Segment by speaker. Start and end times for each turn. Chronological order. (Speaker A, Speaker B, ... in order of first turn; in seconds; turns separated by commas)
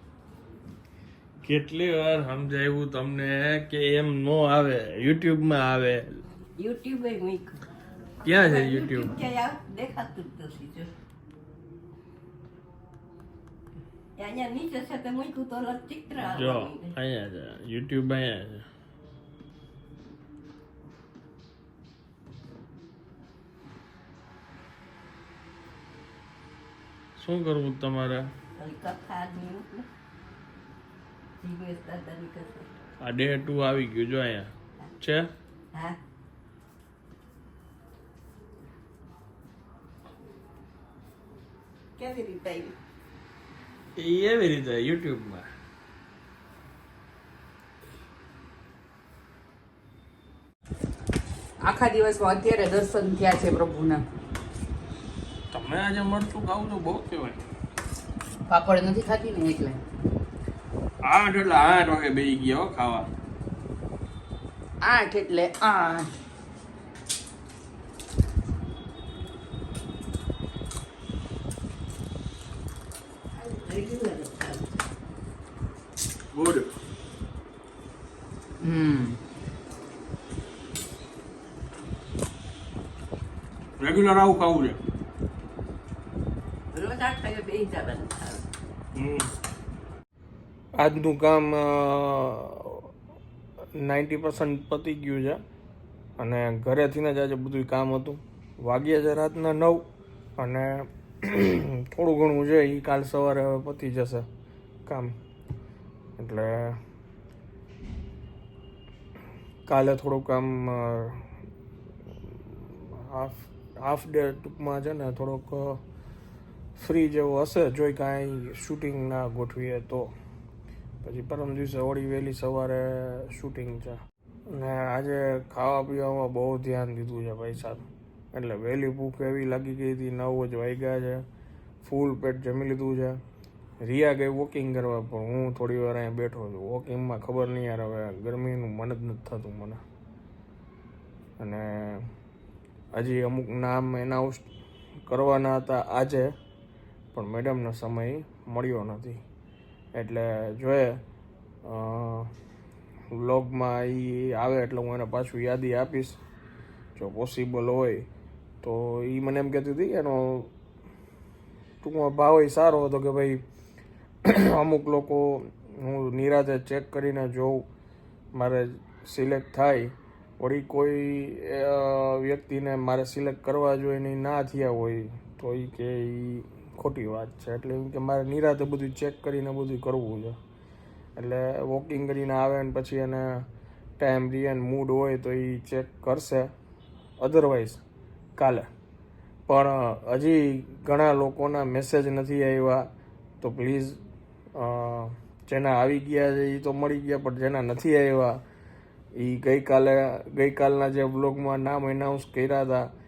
Speaker A: 1.4-6.2, Speaker B: 6.6-7.6, Speaker A: 8.2-9.1, Speaker B: 8.3-10.9, Speaker B: 14.2-16.9, Speaker A: 16.2-18.7, Speaker A: 27.2-28.3, Speaker B: 28.6-29.9, Speaker B: 31.4-32.7, Speaker A: 33.0-35.3, Speaker B: 42.0-42.8, Speaker A: 44.0-45.5, Speaker C: 51.6-54.0, Speaker A: 55.5-57.4, Speaker C: 58.5-59.8, Speaker A: 61.0-63.1, Speaker C: 64.8-66.1, Speaker B: 73.4-74.8, Speaker A: 76.3-76.7, Speaker C: 78.6-79.2, Speaker A: 83.8-84.8, Speaker B: 86.7-88.5, Speaker A: 89.0-89.3, Speaker A: 90.8-92.9, Speaker A: 93.8-95.4, Speaker A: 96.2-99.8, Speaker A: 100.4-104.3, Speaker A: 104.9-105.2, Speaker A: 106.2-106.8, Speaker A: 109.7-111.3, Speaker A: 112.3-115.8, Speaker A: 116.8-120.1, Speaker A: 121.0-124.0, Speaker A: 124.5-131.2, Speaker A: 131.8-133.2, Speaker A: 133.8-139.8, Speaker A: 141.4-142.1, Speaker A: 142.9-144.5, Speaker A: 145.1-146.3, Speaker A: 147.1-149.2, Speaker A: 149.9-151.0, Speaker A: 151.7-152.3, Speaker A: 153.1-156.2, Speaker A: 157.0-158.1, Speaker A: 158.6-160.5, Speaker A: 161.8-163.4, Speaker A: 164.2-167.7, Speaker A: 168.3-180.4, Speaker A: 181.2-183.5, Speaker A: 184.0-186.5, Speaker A: 187.2-187.8, Speaker A: 188.4-188.7, Speaker A: 189.5-192.9, Speaker A: 193.4-194.0, Speaker A: 194.6-198.4, Speaker A: 199.2-202.9